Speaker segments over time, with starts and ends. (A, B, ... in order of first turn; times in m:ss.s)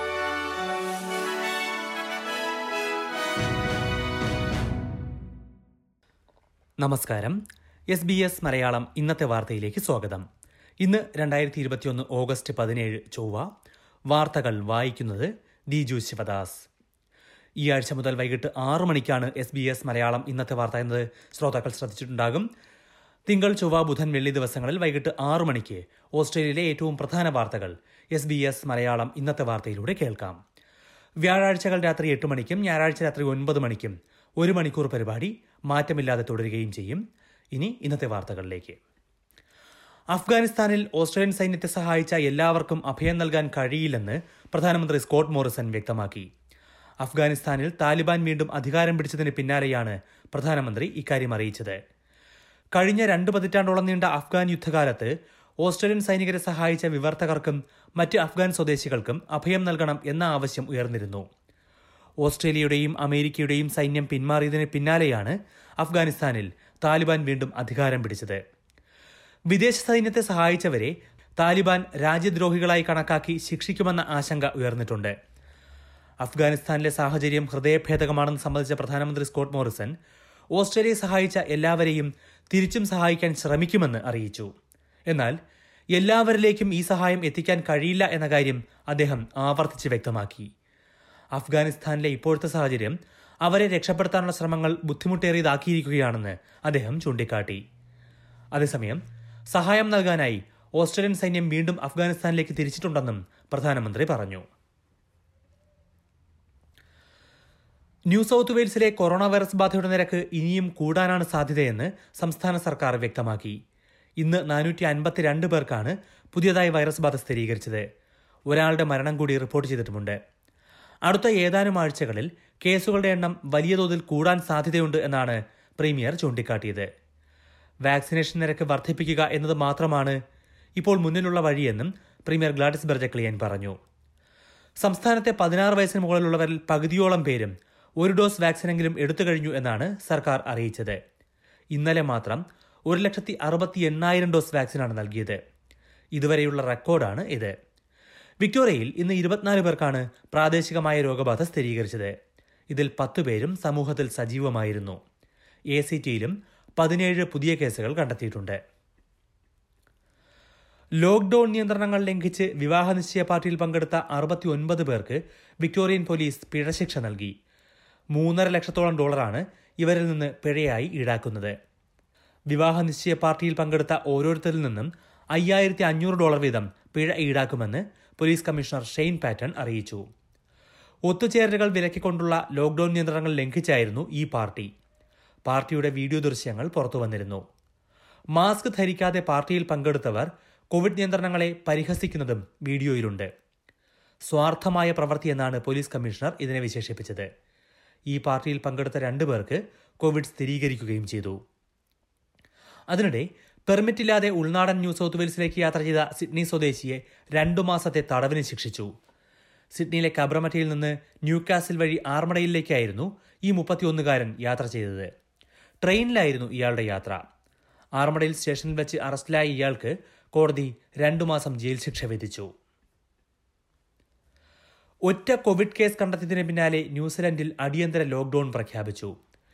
0:06.8-0:07.4 A
0:07.9-0:10.2 A
0:10.8-0:13.5 A
0:14.1-0:16.7 A
0:17.6-0:22.5 A
0:23.3-0:30.4 A
0:31.2-0:37.0 A
0:37.5-0:38.8 A
0:40.1-0:46.3 A
0:47.0-0:51.8 A
0:52.8-1:01.3 A
1:02.2-1:08.4 A
1:09.5-1:15.1 A
1:16.2-1:19.9 A
1:20.6-1:24.5 A
1:25.1-1:25.4 A
1:25.9-1:30.5 A
1:31.4-1:37.6 A
1:38.6-1:44.4 A
1:48.1-1:53.6 A
1:54.2-1:57.8 A
1:58.5-2:00.2 A
2:01.1-2:06.9 A
2:07.8-2:10.2 A
2:10.8-2:13.8 A
2:14.8-2:21.0 A
2:21.8-2:25.4 A
2:26.2-2:27.5 A
2:28.4-2:32.1 A
2:32.7-2:35.0 A
2:35.7-2:38.6 A
2:41.0-2:47.3 A
2:48.1-2:51.5 A
2:52.5-3:00.0 A
3:01.1-3:04.7 A
3:05.5-3:07.4 A
3:08.4-3:13.3 A
3:14.3-3:17.3 A
3:18.1-3:21.4 A
3:22.9-3:28.9 A
3:29.8-3:35.1 A
3:35.8-3:37.2 A
3:38.0-3:42.5 A
3:45.1-3:49.1 A